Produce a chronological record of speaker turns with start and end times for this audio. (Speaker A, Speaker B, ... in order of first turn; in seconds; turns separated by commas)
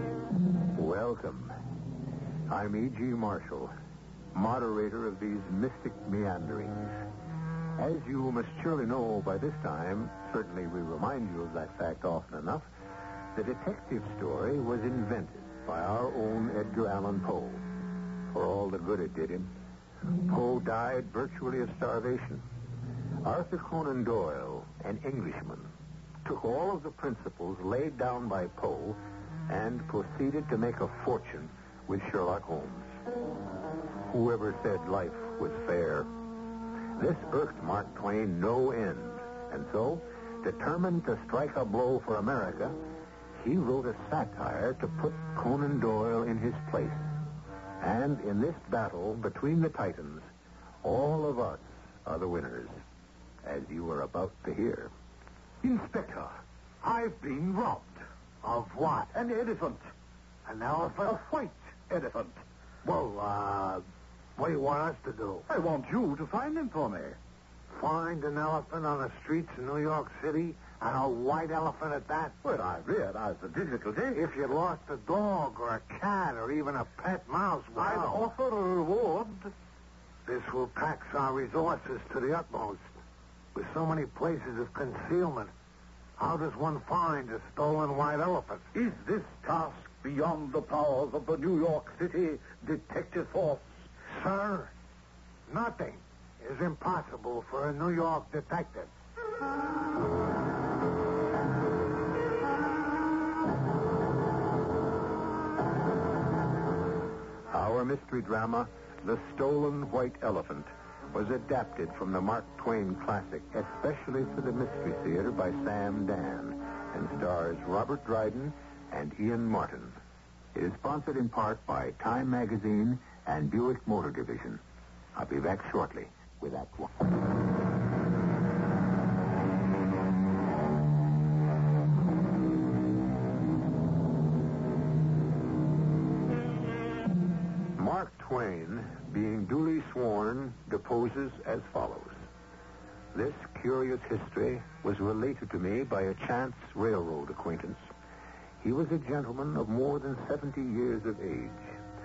Speaker A: 0.7-1.5, Speaker A: 2.5-3.7, Speaker A: 4.3-6.9, Speaker A: 7.8-12.7, Speaker A: 13.3-17.6, Speaker A: 18.3-19.5, Speaker A: 20.2-22.4, Speaker A: 23.2-25.7, Speaker A: 26.2-33.0, Speaker A: 34.0-36.1, Speaker A: 36.9-42.8, Speaker A: 43.4-47.1, Speaker A: 47.8-50.3, Speaker A: 50.8-52.8, Speaker A: 53.4-54.9, Speaker B: 55.6-58.0, Speaker C: 58.4-59.1, Speaker B: 59.1-59.9, Speaker C: 60.5-61.2, Speaker B: 61.0-62.4, Speaker C: 62.8-63.8, Speaker C: 64.4-65.4, Speaker B: 65.5-67.2, Speaker C: 67.7-72.3, Speaker B: 72.4-74.3, Speaker C: 74.1-78.2, Speaker B: 77.8-79.5, Speaker C: 80.2-82.9, Speaker C: 83.5-85.5, Speaker C: 86.2-88.6, Speaker B: 88.7-93.7, Speaker C: 94.1-94.7, Speaker C: 95.5-98.9, Speaker A: 107.5-120.0, Speaker A: 120.5-124.6, Speaker A: 125.1-127.1, Speaker A: 137.7-142.2, Speaker A: 143.1-147.9, Speaker A: 148.6-151.8